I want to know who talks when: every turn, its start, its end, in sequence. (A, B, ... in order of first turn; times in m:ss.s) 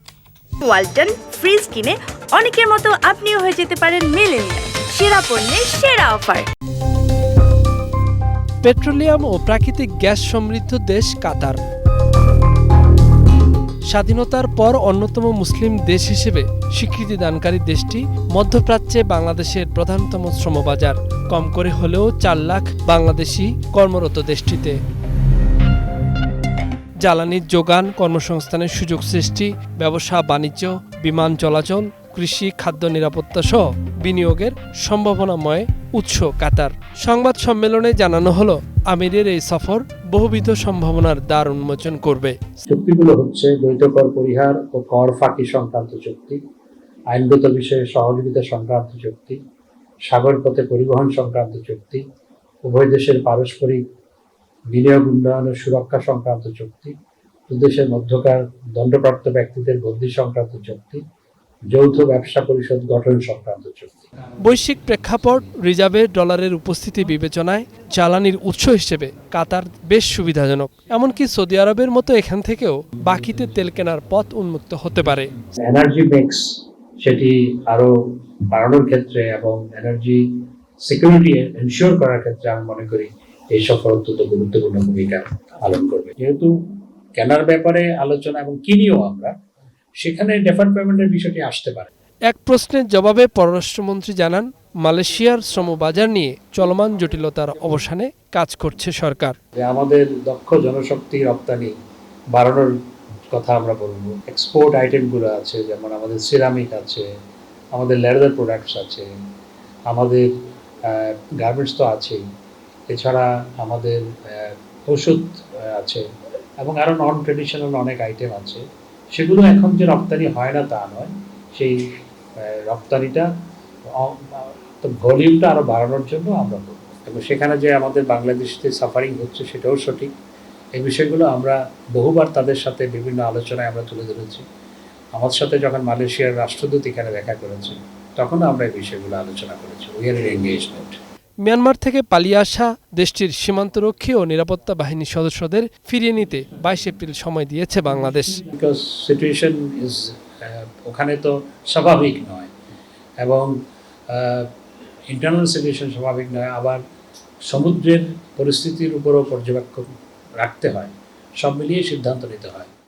0:00.6-0:06.5 A
0:08.6-0:11.6 B
0:13.9-0:24.8 B
0:27.0-0:42.6 B
0:42.7-0:46.4 C
0:47.1-0:49.4 C
0:50.0-0:52.0 C
0:52.6-0:53.8 C
0:54.7-0:57.0 C
0:57.5-1:01.0 C
1:01.7-1:04.0 C
1:04.4-1:15.3 B
1:15.6-1:26.6 C
1:27.2-1:29.3 C
1:30.0-1:31.9 C
1:32.3-1:39.4 B
1:39.6-1:41.7 C
1:42.3-1:42.7 C
1:43.3-1:47.0 C
1:47.7-1:49.1 C
1:49.9-1:50.3 C
1:50.8-1:52.2 C
1:52.9-1:56.0 C
1:56.6-2:01.8 C
2:02.4-2:03.3 C
2:03.9-2:10.1 C
2:10.8-2:14.4 C
2:15.1-2:21.0 C
2:21.4-2:28.5 B
2:28.5-2:32.5 C
2:33.2-2:33.5 C
2:34.1-2:34.5 C
2:35.1-2:36.8 C
2:37.4-2:42.7 C